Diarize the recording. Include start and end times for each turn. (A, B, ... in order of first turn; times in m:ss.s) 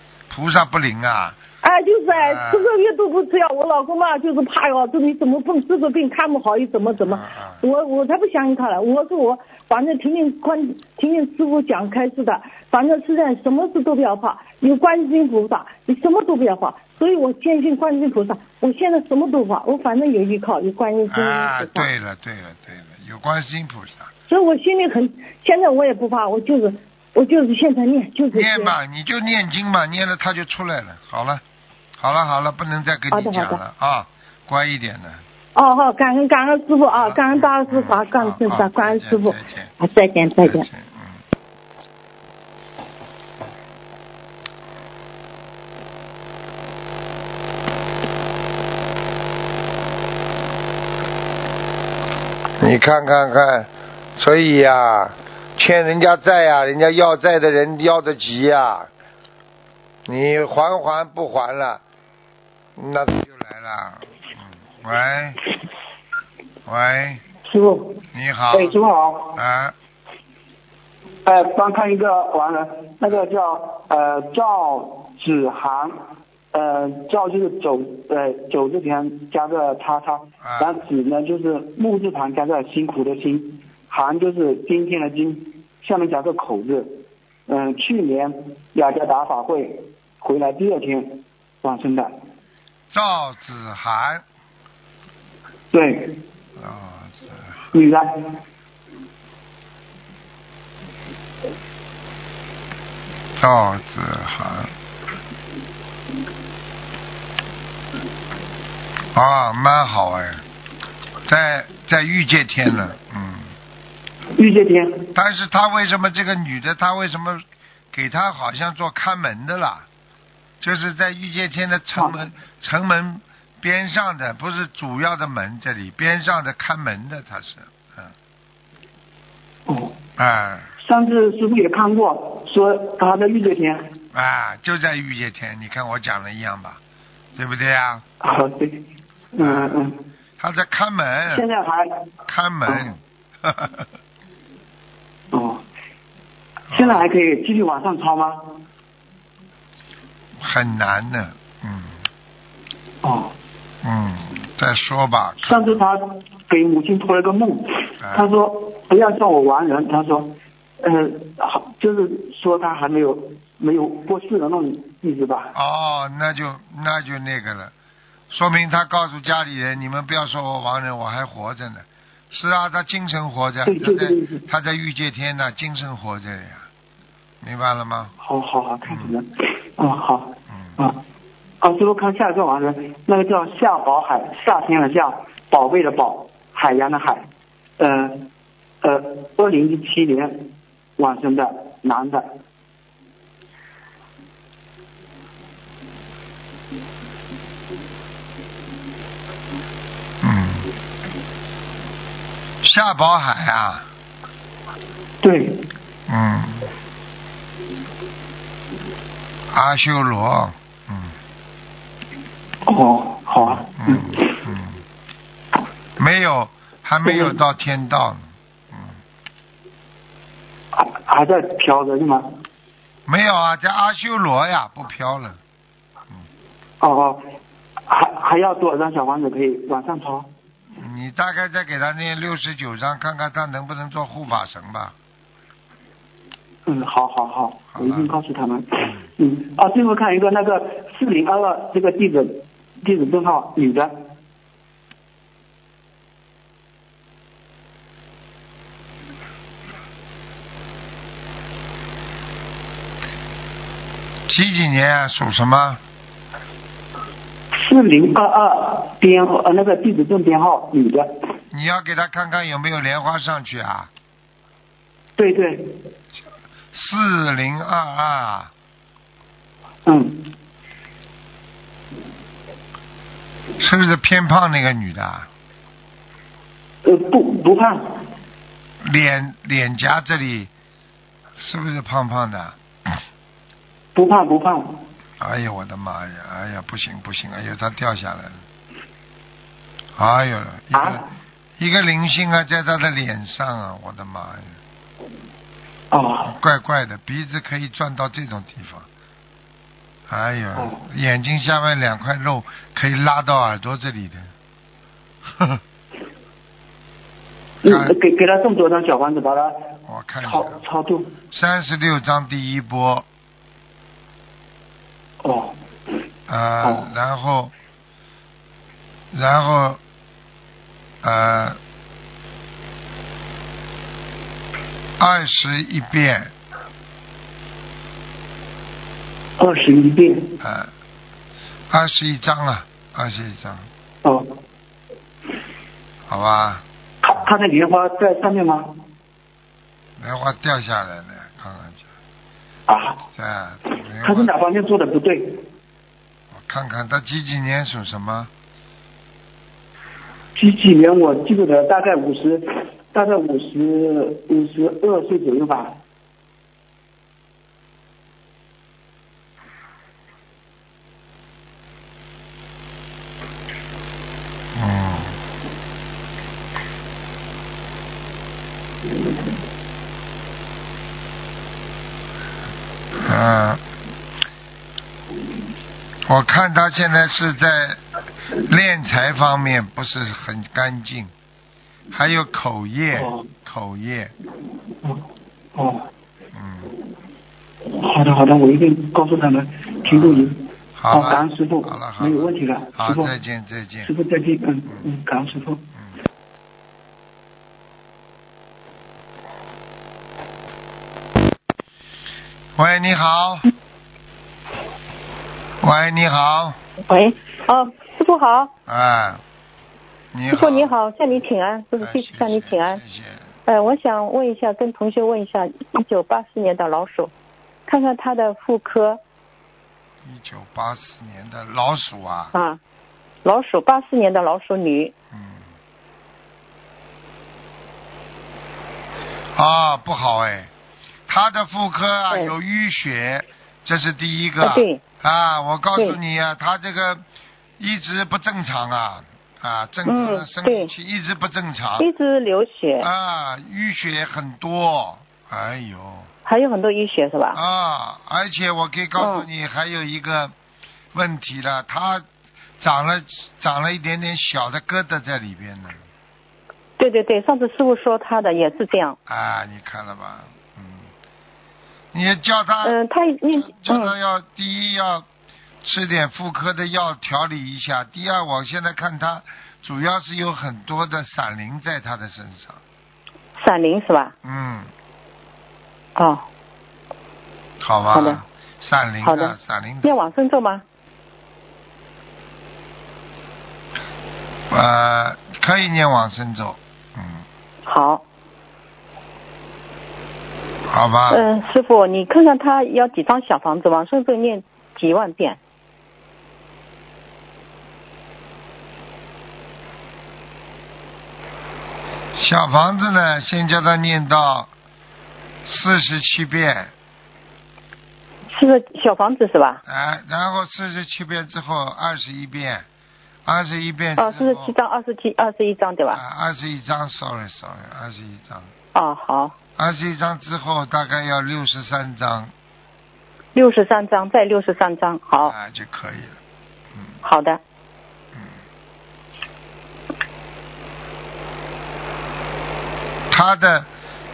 0:00.3-0:01.4 A
0:01.6-0:21.9 B
0:02.1-0:02.7 A
0:07.0-0:07.6 A
0:21.1-0:24.1 A
0:24.3-0:28.8 B
0:28.3-0:31.4 A
0:32.0-0:35.2 A
0:33.1-0:33.6 B
0:35.6-0:40.7 B
0:36.9-0:39.7 A
0:40.4-0:41.2 A
0:52.6-0:58.9 A
1:00.1-1:01.8 A
1:02.8-1:05.4 A
1:06.7-1:07.2 A
1:07.4-1:09.4 C
1:08.1-1:08.8 A
1:09.4-1:09.8 A
1:11.2-1:16.0 C
1:16.5-1:32.1 C
1:20.4-1:20.8 A
1:32.9-1:34.2 A
1:35.7-1:36.2 C
1:36.6-1:37.6 A
1:37.7-1:38.4 C
1:43.4-1:44.7 A
1:49.1-1:50.4 A
1:51.3-1:53.5 A
1:54.4-1:55.1 C
1:55.1-1:59.9 A
2:00.6-2:08.1 A
2:09.7-2:10.0 C
2:10.2-2:10.7 A
2:10.8-2:13.9 C
2:14.1-2:16.8 A
2:17.4-2:18.0 A
2:18.2-2:20.0 C
2:19.4-2:19.8 A
2:20.4-2:21.4 A
2:21.3-2:22.1 C
2:22.3-2:23.9 A
2:22.7-2:22.9 C
2:25.3-2:25.6 C
2:26.7-2:27.1 A
2:26.7-2:28.6 C
2:30.4-2:32.0 A
2:33.0-2:33.4 C
2:33.8-2:35.8 A
2:35.4-2:45.5 C
2:38.0-2:38.3 A
2:45.5-2:47.7 A
2:48.3-2:56.7 A
2:53.6-2:54.5 C
2:57.4-2:58.1 A
2:58.2-3:01.0 C
2:58.9-2:59.1 A
3:01.6-3:08.3 C
3:08.8-3:12.3 C
3:20.2-3:20.7 A
3:22.6-3:23.9 A
3:25.2-3:25.7 C
3:26.1-3:26.7 A
3:29.5-3:31.2 A
3:32.7-3:34.4 C
3:33.5-3:34.8 A
3:36.0-3:39.0 A
3:37.0-3:37.4 C
3:40.7-3:42.4 C
3:43.1-3:45.4 A
3:46.8-3:47.3 C
3:47.9-3:50.3 C
3:50.8-3:54.9 A
3:56.7-4:04.0 C
3:57.8-3:58.1 A
4:14.3-4:15.8 A
4:17.5-4:21.1 C
4:21.5-4:23.9 A
4:25.2-4:25.8 C
4:26.7-4:28.5 A
4:29.9-4:30.3 C
4:33.6-4:35.3 A
4:36.8-4:38.0 C
4:38.8-4:40.5 A
4:41.4-4:42.6 A
4:44.0-4:44.8 C
4:45.2-4:48.4 A
4:50.0-4:51.0 A
4:50.7-4:51.1 C
4:51.6-4:54.6 A
4:55.9-4:56.4 C
4:56.2-4:58.9 A
5:00.1-5:04.3 A
5:00.6-5:00.8 C
5:05.3-5:05.6 A
5:07.6-5:07.9 A
5:07.6-5:11.1 C
5:09.9-5:10.6 A
5:11.3-5:13.1 A
5:15.2-5:15.6 C
5:16.3-5:17.5 A
5:16.6-5:16.9 C
5:19.1-5:19.8 A
5:21.0-5:21.6 A
5:25.0-5:26.3 A
5:29.4-5:30.4 C
5:30.4-5:30.7 A
5:31.7-5:33.7 A
5:34.0-5:34.4 C
5:36.1-5:36.6 A
5:37.0-5:38.8 C
5:40.0-5:41.8 A
5:42.7-5:43.0 C
5:43.2-5:44.3 A
5:44.0-5:45.5 C
5:46.3-5:48.3 A
5:50.4-5:55.8 C
6:04.5-6:05.2 A
6:13.0-6:13.6 A
6:16.1-6:17.8 A
6:18.4-6:21.1 A
6:21.9-6:24.1 A
6:22.9-6:23.3 C
6:24.8-6:25.9 C
6:26.3-6:26.7 A
6:27.8-6:33.1 C
6:29.9-6:33.9 A
6:33.8-6:35.6 C
6:42.6-6:43.5 A
6:45.6-6:46.6 A
6:46.9-6:48.5 D
6:48.7-6:49.2 A
6:50.1-6:50.7 A
6:50.3-6:52.8 D
6:51.8-6:53.4 A
6:53.5-6:57.1 D
6:57.7-6:59.0 D
7:00.0-7:02.3 A
7:02.3-7:02.6 D
7:03.2-7:04.9 D
7:05.1-7:05.5 A
7:09.4-7:10.5 A
7:11.1-7:17.0 A
7:14.4-7:14.8 D
7:17.6-7:21.9 A
7:19.9-7:20.7 D
7:21.8-7:22.9 D
7:22.8-7:26.1 A
7:26.2-7:27.4 D
7:27.3-7:30.3 A
7:29.0-7:29.3 D
7:30.9-7:32.0 A
7:32.6-7:35.8 A
7:36.8-7:39.0 D
7:39.1-7:40.9 A
7:41.9-7:42.8 A
7:42.6-7:43.9 D
7:43.3-7:45.1 A
7:45.6-7:52.6 A
7:53.4-7:54.1 D
7:54.2-7:54.7 A
7:56.0-7:56.2 D
7:57.6-8:00.0 A
7:57.9-7:58.2 D
7:59.0-8:00.6 D
8:04.5-8:07.2 A
8:07.7-8:08.0 D
8:10.7-8:11.3 A
8:11.1-8:15.4 D
8:22.1-8:24.5 A
8:25.4-8:26.7 A
8:28.3-8:29.6 D
8:29.7-8:32.7 A
8:33.2-8:34.5 A
8:34.0-8:36.0 D
8:35.9-8:38.5 A
8:38.7-8:39.4 D
8:39.6-8:42.3 A
8:43.4-8:45.3 D
8:45.2-8:46.2 A
8:47.0-8:47.4 D
8:53.1-8:53.7 A